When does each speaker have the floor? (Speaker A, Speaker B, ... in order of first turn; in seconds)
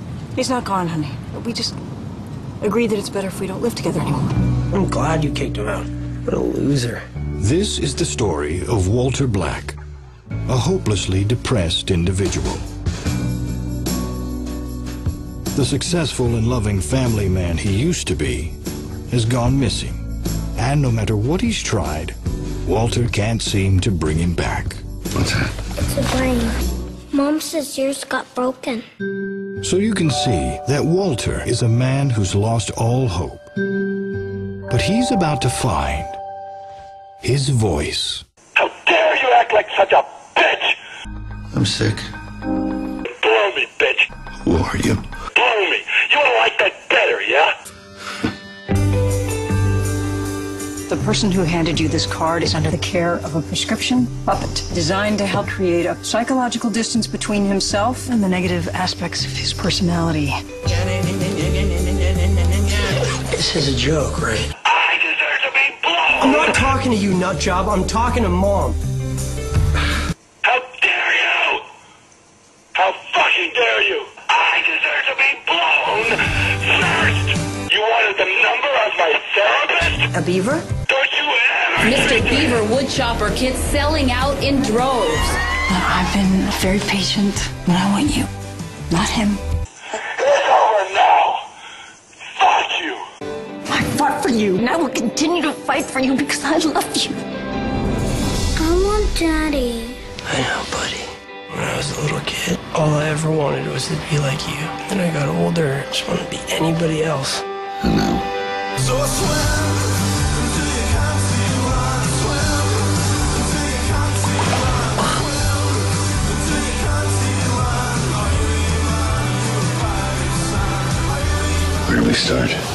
Speaker A: 0.3-1.8, 2.6-4.2, 50.9-60.4, 80.1-80.6, 85.7-88.3, 88.9-89.4, 93.7-97.2
Speaker B: 4.7-7.0, 63.0-64.5, 66.2-68.8, 100.3-107.4
Speaker C: 7.4-9.8, 10.5-12.7, 15.5-18.6, 19.1-20.0, 20.6-24.8, 29.6-33.5, 34.7-36.2, 37.2-38.2
Speaker D: 25.8-26.5, 27.1-28.8, 98.6-100.0
Speaker E: 38.5-40.8, 43.1-44.1, 45.4-47.5, 64.6-66.7, 70.4-71.6, 72.7-80.0, 80.9-82.6, 90.2-91.4, 92.3-93.0
Speaker F: 41.5-42.1, 44.4-45.0, 107.8-108.2, 121.8-122.6
Speaker G: 81.8-85.4